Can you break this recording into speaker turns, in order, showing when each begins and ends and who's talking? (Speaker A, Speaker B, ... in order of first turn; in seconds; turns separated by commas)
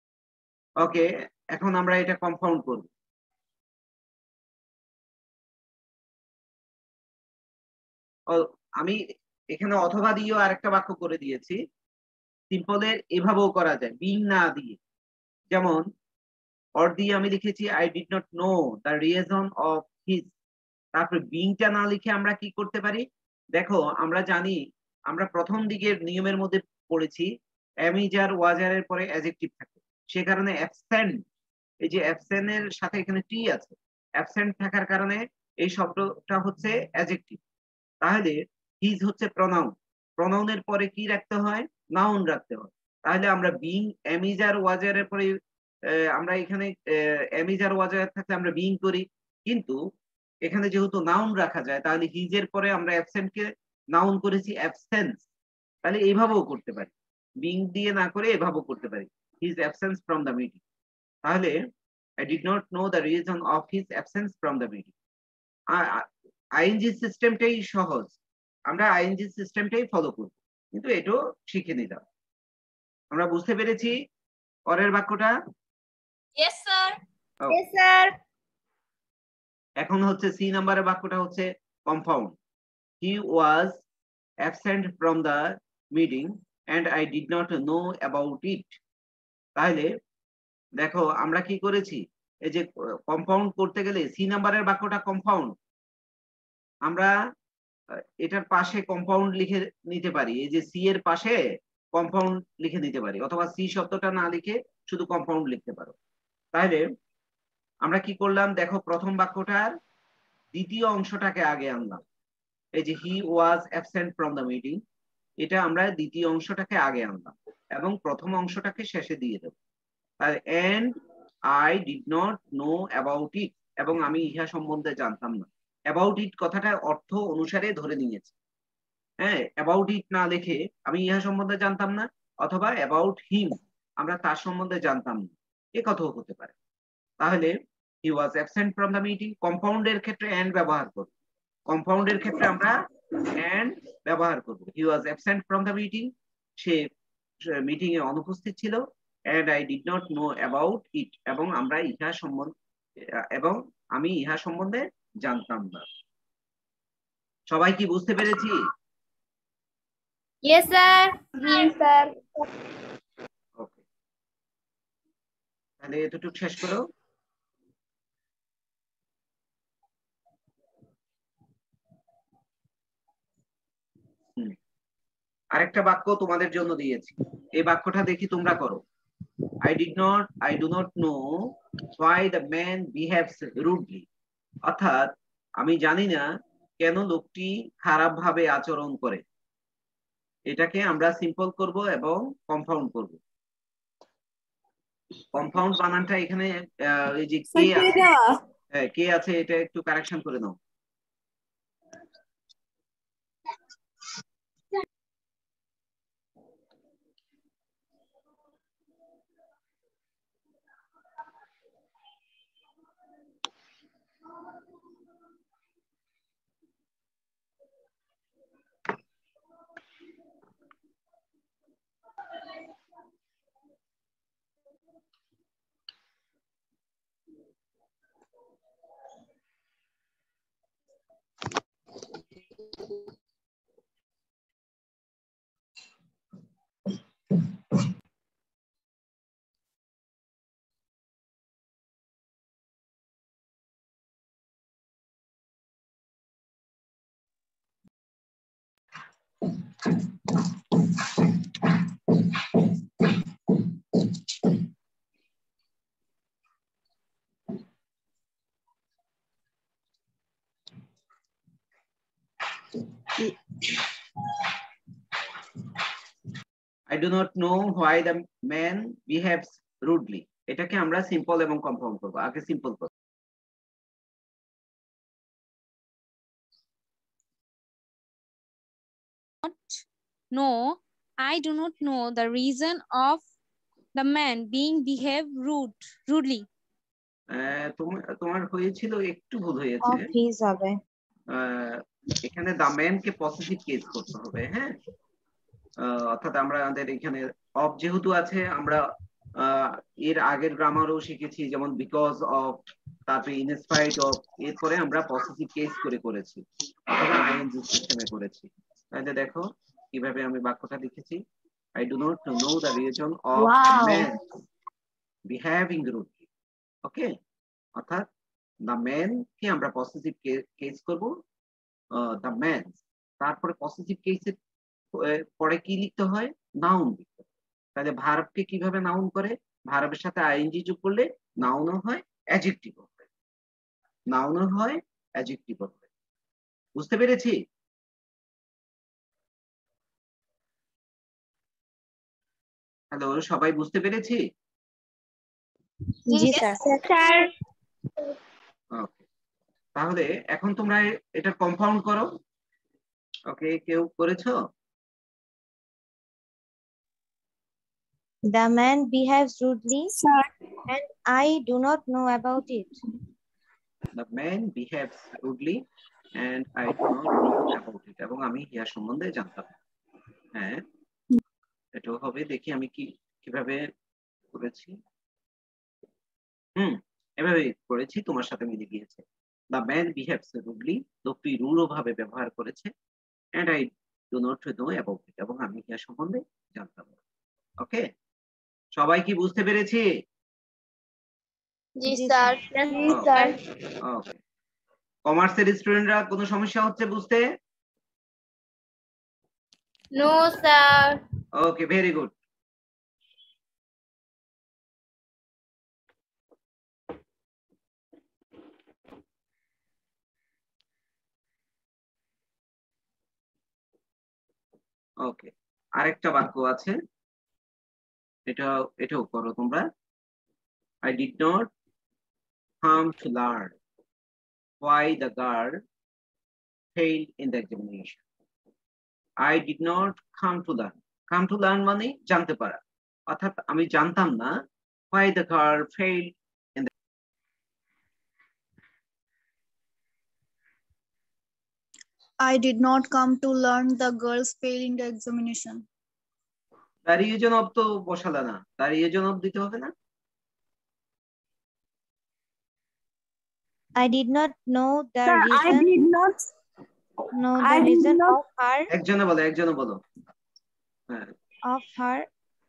Speaker A: 0.8-2.9, Speaker A: 8.3-9.0, Speaker A: 9.5-11.6, Speaker A: 12.5-14.8, Speaker A: 15.5-15.8, Speaker A: 16.8-20.3, Speaker A: 20.9-27.3, Speaker A: 27.9-31.2, Speaker A: 31.8-37.4, Speaker A: 38.0-45.3, Speaker A: 45.9-49.8, Speaker A: 50.5-55.3, Speaker A: 55.8-60.6, Speaker A: 61.2-61.5, Speaker A: 62.2-64.9, Speaker A: 65.7-66.0, Speaker A: 66.6-68.2, Speaker A: 68.7-72.0, Speaker A: 73.1-73.9, Speaker A: 74.7-75.3, Speaker A: 79.8-82.4, Speaker A: 83.0-83.8, Speaker A: 84.5-88.8, Speaker A: 89.6-89.9, Speaker A: 90.8-95.5, Speaker A: 96.9-97.1, Speaker A: 98.2-101.4, Speaker A: 102.0-106.0, Speaker A: 106.5-106.8, Speaker A: 107.8-109.8, Speaker A: 110.5-112.0, Speaker A: 112.8-114.8, Speaker A: 115.4-119.5, Speaker A: 120.2-120.9, Speaker A: 121.5-128.3, Speaker A: 129.2-136.5, Speaker A: 137.2-141.1, Speaker A: 141.7-146.1, Speaker A: 146.6-146.9, Speaker A: 147.5-152.5, Speaker A: 153.3-155.9, Speaker A: 157.5-158.7, Speaker B: 161.4-162.0, Speaker A: 163.6-163.8, Speaker A: 165.8-166.8, Speaker A: 175.5-178.8, Speaker A: 179.6-184.1, Speaker A: 184.7-186.2, Speaker A: 186.8-189.2, Speaker A: 190.5-193.2, Speaker A: 195.3-198.0, Speaker C: 197.5-198.4, Speaker A: 198.7-200.6, Speaker A: 266.9-272.9, Speaker B: 279.4-279.7, Speaker B: 280.4-283.2, Speaker B: 284.0-286.4, Speaker A: 287.3-290.1, Speaker D: 289.8-290.8, Speaker A: 291.3-294.7, Speaker A: 295.8-298.8, Speaker A: 299.4-311.2, Speaker A: 311.8-314.3, Speaker A: 315.3-316.2, Speaker A: 316.9-317.1, Speaker A: 317.8-318.1, Speaker A: 318.7-321.1, Speaker A: 321.9-324.4, Speaker A: 325.0-333.1, Speaker A: 334.1-335.8, Speaker A: 336.8-337.4, Speaker A: 342.9-344.2, Speaker D: 346.1-346.6, Speaker A: 348.8-349.0, Speaker A: 349.8-352.1, Speaker A: 353.3-354.4, Speaker D: 358.3-359.9, Speaker C: 360.0-360.3, Speaker D: 360.7-362.8, Speaker A: 363.9-365.6, Speaker A: 366.2-369.5, Speaker A: 370.4-370.6, Speaker A: 371.8-373.7, Speaker A: 374.3-374.8, Speaker A: 376.6-382.7, Speaker A: 383.4-386.9, Speaker A: 388.8-389.9, Speaker D: 391.9-393.0, Speaker B: 391.9-393.3, Speaker A: 392.9-394.2, Speaker A: 395.1-397.2, Speaker A: 401.4-402.1, Speaker A: 415.0-416.8, Speaker A: 418.3-419.7, Speaker A: 420.9-421.5, Speaker A: 422.6-423.6, Speaker A: 424.6-425.5, Speaker A: 426.8-428.0, Speaker A: 429.2-434.3, Speaker A: 434.9-436.7, Speaker E: 442.2-445.6, Speaker A: 446.9-449.7, Speaker D: 453.8-455.7, Speaker C: 455.1-456.2, Speaker D: 457.1-458.7, Speaker C: 457.4-458.2, Speaker A: 458.7-459.8, Speaker D: 461.5-462.1